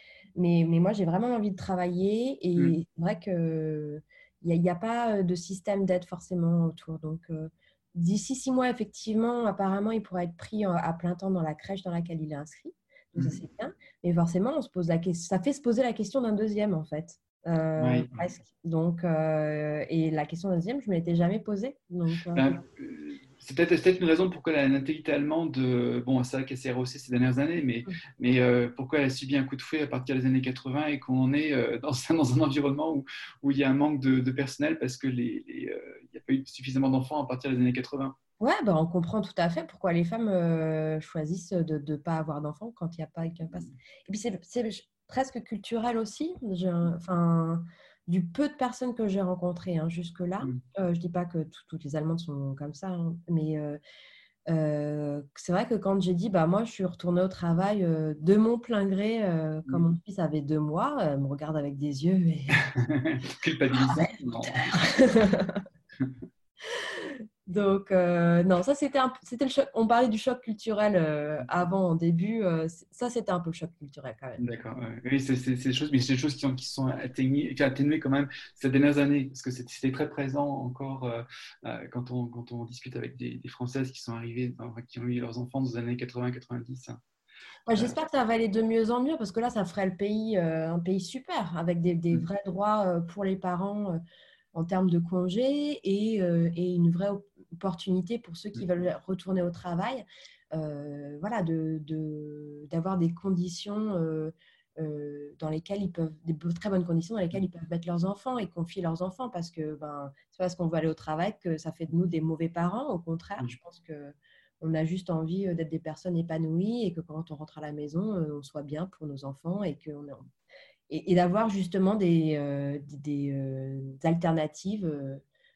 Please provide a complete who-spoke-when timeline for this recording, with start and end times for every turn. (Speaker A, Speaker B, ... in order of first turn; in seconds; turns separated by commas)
Speaker A: 0.3-22.6, Speaker B: 13.2-13.4, Speaker B: 17.8-18.3, Speaker B: 22.3-38.1, Speaker A: 38.4-53.8, Speaker A: 54.5-62.6, Speaker B: 62.7-64.7, Speaker A: 63.7-65.6, Speaker A: 66.7-74.4, Speaker B: 74.4-87.0, Speaker A: 87.7-94.0, Speaker A: 94.5-120.3, Speaker A: 120.9-125.2